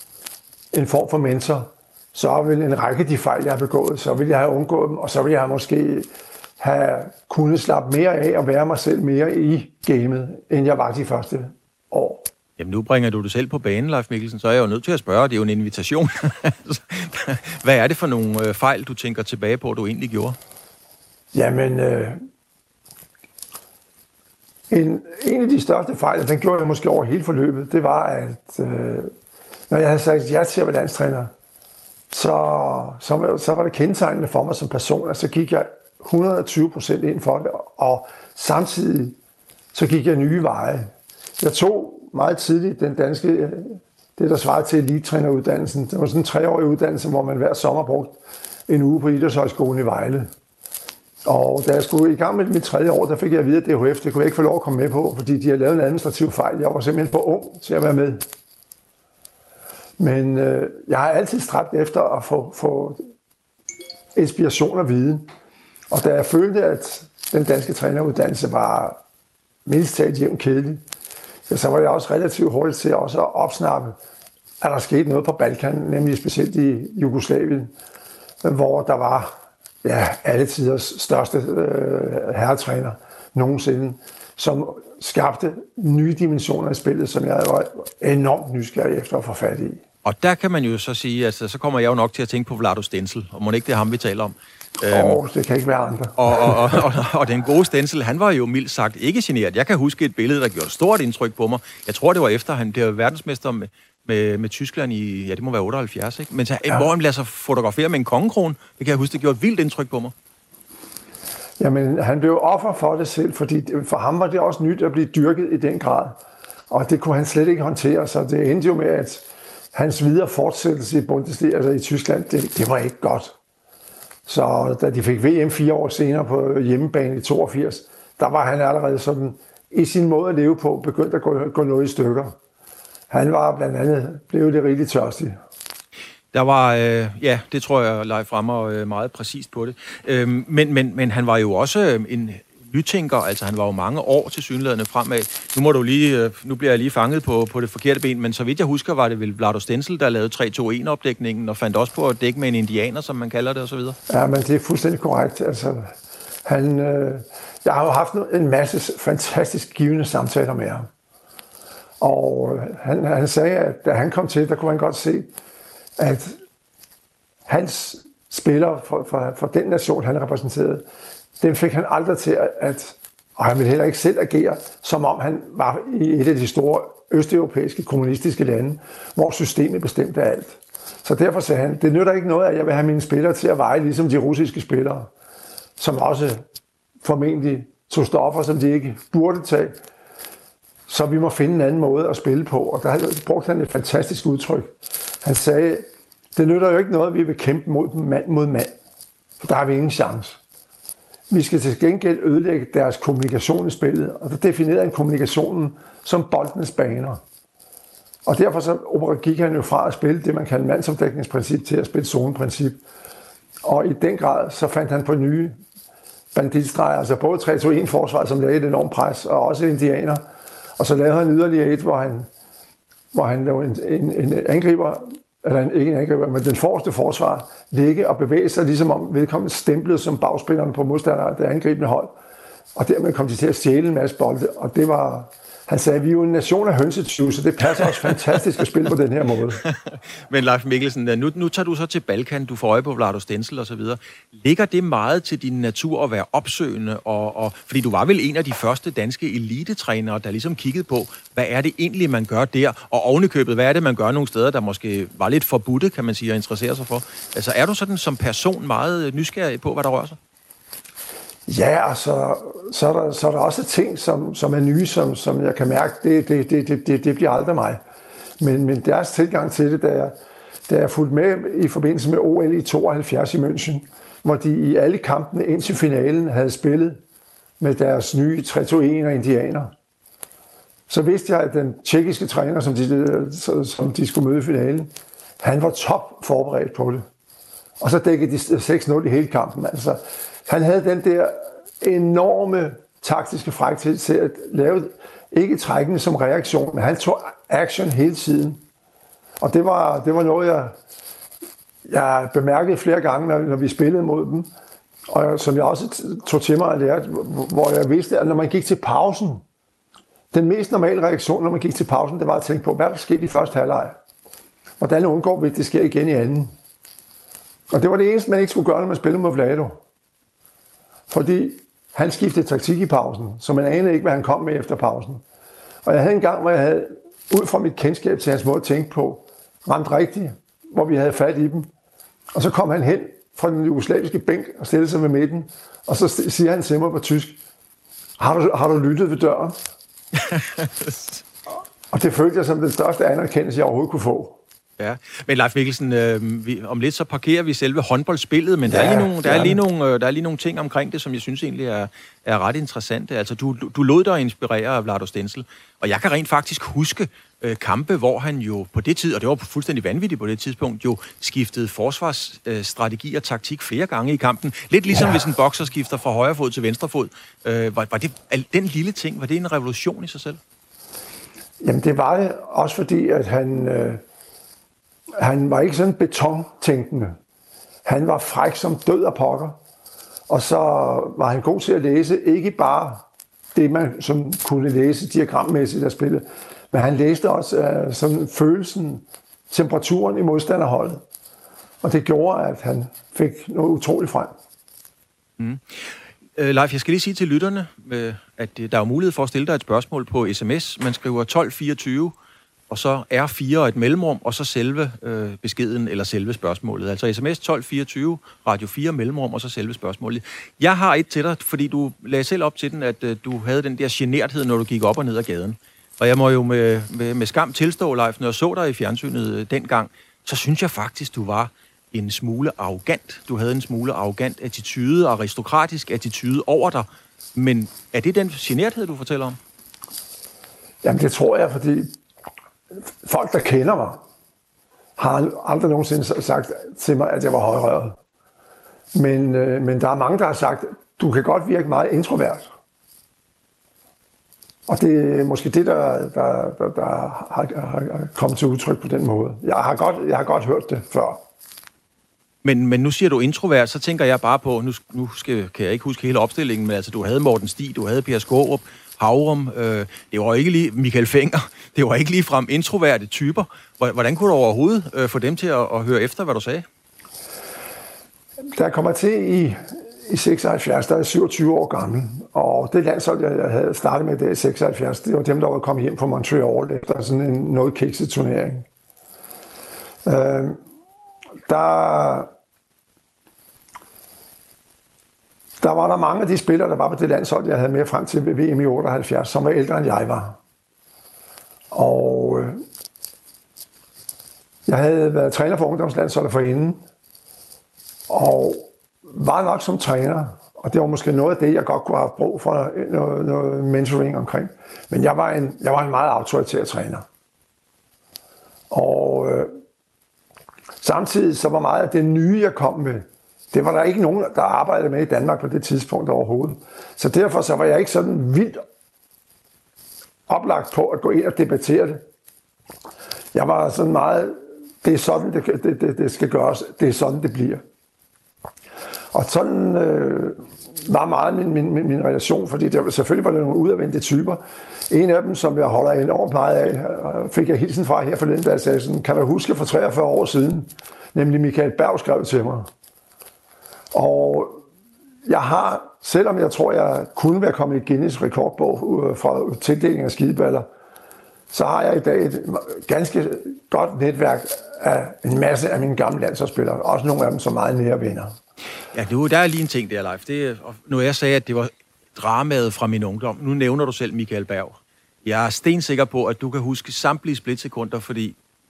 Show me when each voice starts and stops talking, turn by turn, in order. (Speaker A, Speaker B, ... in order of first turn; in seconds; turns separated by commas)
Speaker A: 0.7-12.3, Speaker B: 12.6-20.4, Speaker A: 21.3-22.2, Speaker A: 24.7-29.1, Speaker A: 29.7-31.3, Speaker A: 32.1-39.2, Speaker A: 39.7-50.3, Speaker A: 51.2-58.2, Speaker A: 60.0-63.0, Speaker A: 64.2-65.3, Speaker A: 65.9-69.0, Speaker A: 69.7-70.8, Speaker A: 71.5-74.0, Speaker A: 74.6-77.7, Speaker A: 78.4-89.8, Speaker B: 90.0-95.2, Speaker A: 94.9-96.8, Speaker B: 96.2-110.1, Speaker A: 111.6-116.2, Speaker A: 116.7-123.3, Speaker A: 124.3-132.4, Speaker A: 133.1-135.4, Speaker B: 136.3-154.0, Speaker A: 154.1-155.9, Speaker A: 156.4-160.9, Speaker A: 162.0-165.3, Speaker A: 166.0-166.4, Speaker A: 167.5-170.8, Speaker A: 171.4-185.1, Speaker A: 185.8-186.4, Speaker A: 187.0-189.8, Speaker A: 190.9-198.8, Speaker A: 199.4-200.4, Speaker A: 201.3-207.2, Speaker A: 208.3-212.8, Speaker A: 213.6-215.6, Speaker A: 216.3-220.2, Speaker A: 220.8-222.3, Speaker A: 223.1-232.1, Speaker A: 232.8-239.6, Speaker B: 239.6-260.2, Speaker A: 261.5-267.8, Speaker A: 268.4-270.1, Speaker A: 270.7-277.0, Speaker A: 277.6-279.7, Speaker A: 280.9-287.1, Speaker A: 287.8-298.6, Speaker A: 299.4-300.8, Speaker A: 301.9-304.5, Speaker A: 305.1-309.4, Speaker A: 310.3-314.0, Speaker A: 314.8-316.5, Speaker A: 317.7-319.8, Speaker A: 321.1-325.2, Speaker A: 325.9-331.7, Speaker A: 332.3-337.4, Speaker A: 338.2-339.6, Speaker B: 340.1-341.2, Speaker A: 341.9-344.4, Speaker B: 344.8-370.4, Speaker A: 348.7-349.6, Speaker A: 371.6-374.0, Speaker A: 375.2-377.2, Speaker A: 377.9-379.6, Speaker A: 380.3-391.0, Speaker A: 391.8-394.3, Speaker B: 395.4-402.1, Speaker B: 402.7-429.4, Speaker A: 430.8-432.0, Speaker A: 432.9-434.0, Speaker A: 435.0-438.0, Speaker A: 438.9-442.5, Speaker A: 444.7-451.2, Speaker B: 452.4-466.7, Speaker A: 468.6-478.7, Speaker A: 480.1-480.6, Speaker A: 481.5-482.3, Speaker A: 485.6-490.4, Speaker A: 491.7-492.6, Speaker A: 494.7-496.8, Speaker A: 498.1-507.1, Speaker A: 508.7-509.5, Speaker A: 510.8-518.6, Speaker A: 520.3-522.0, Speaker A: 523.3-527.6, Speaker A: 529.1-542.7, Speaker A: 543.9-544.6, Speaker A: 545.3-550.7, Speaker A: 551.5-558.4, Speaker B: 558.9-568.4